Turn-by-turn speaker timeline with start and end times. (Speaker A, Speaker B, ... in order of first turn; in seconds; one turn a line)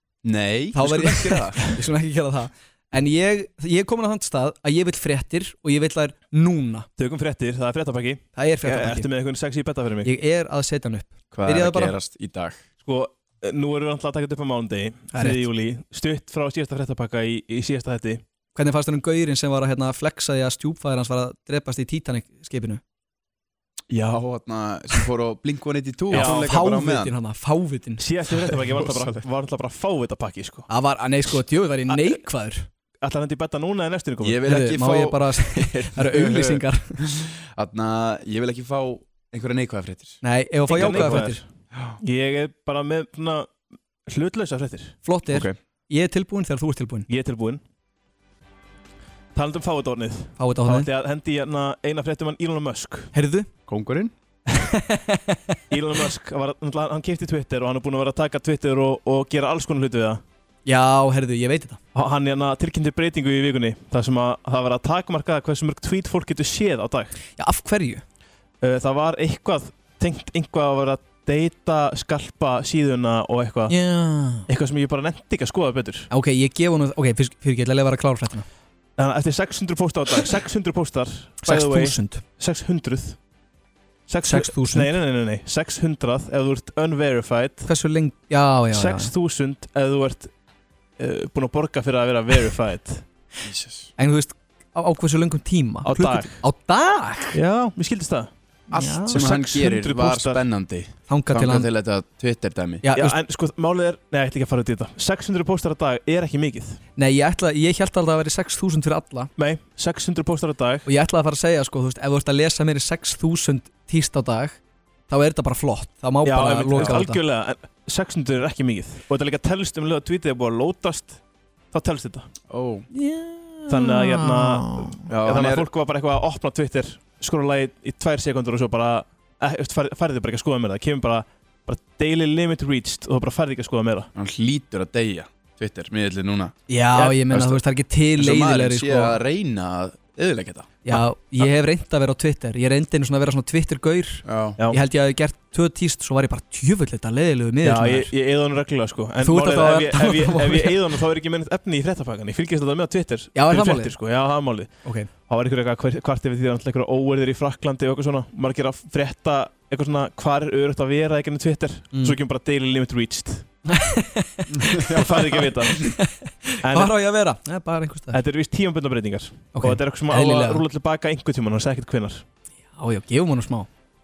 Speaker A: 0.2-1.8
Speaker B: 0.7-6.8
Speaker C: 7.0-10.1
Speaker B: 8.3-9.1
Speaker B: 10.0-11.9
Speaker A: 11.3-12.6
Speaker C: 12.8-18.2
Speaker B: 15.1-15.4
Speaker B: 18.5-22.8
Speaker A: 23.9-27.1
Speaker B: 26.1-28.0
Speaker C: 26.1-26.4
Speaker C: 28.0-30.7
Speaker A: 28.6-29.2
Speaker B: 30.7-32.6
Speaker C: 31.9-32.2
Speaker C: 33.0-34.4
Speaker A: 34.2-40.2
Speaker B: 34.4-37.0
Speaker B: 40.2-41.4
Speaker C: 40.7-41.5
Speaker A: 40.7-42.0
Speaker C: 42.0-43.5
Speaker C: 44.1-45.0
Speaker B: 45.0-47.1
Speaker A: 45.3-45.5
Speaker C: 47.1-47.6
Speaker C: 49.3-53.1
Speaker B: 50.4-50.9
Speaker B: 53.1-53.5
Speaker A: 53.7-54.1
Speaker B: 54.5-55.5
Speaker C: 55.7-60.2
Speaker B: 60.6-61.8
Speaker C: 61.9-67.2
Speaker B: 67.4-68.0
Speaker C: 68.6-73.8
Speaker B: 73.7-74.5
Speaker C: 74.5-76.1
Speaker B: 76.1-78.4
Speaker C: 79.0-83.2
Speaker B: 81.4-82.2
Speaker C: 84.1-87.7
Speaker B: 84.2-84.9
Speaker B: 87.7-89.1
Speaker C: 88.7-90.3
Speaker C: 91.0-93.0
Speaker A: 93.4-93.9
Speaker B: 94.0-97.4
Speaker C: 95.8-96.4
Speaker C: 97.3-98.3
Speaker A: 98.7-102.8
Speaker B: 98.7-99.3
Speaker C: 99.1-100.4
Speaker B: 101.1-101.7
Speaker B: 102.8-103.2
Speaker C: 102.9-106.8
Speaker B: 107.0-109.3
Speaker C: 109.4-110.9
Speaker B: 110.8-114.6
Speaker B: 115.1-117.2
Speaker C: 116.2-121.2
Speaker C: 121.7-122.3
Speaker A: 122.5-122.9
Speaker B: 122.9-124.9
Speaker C: 123.7-134.1
Speaker A: 125.1-125.7
Speaker A: 134.1-136.5
Speaker B: 136.7-139.2
Speaker C: 136.9-137.4
Speaker A: 137.3-137.6
Speaker A: 138.2-140.8
Speaker B: 140.8-148.1
Speaker A: 144.2-144.6
Speaker C: 147.6-163.5
Speaker B: 149.2-150.9
Speaker B: 153.3-153.9
Speaker B: 154.8-155.1
Speaker B: 163.7-165.1
Speaker A: 164.5-164.9
Speaker C: 164.8-165.9
Speaker B: 165.8-168.2
Speaker C: 166.6-166.9
Speaker C: 168.1-172.2
Speaker B: 169.5-170.6
Speaker B: 172.7-173.7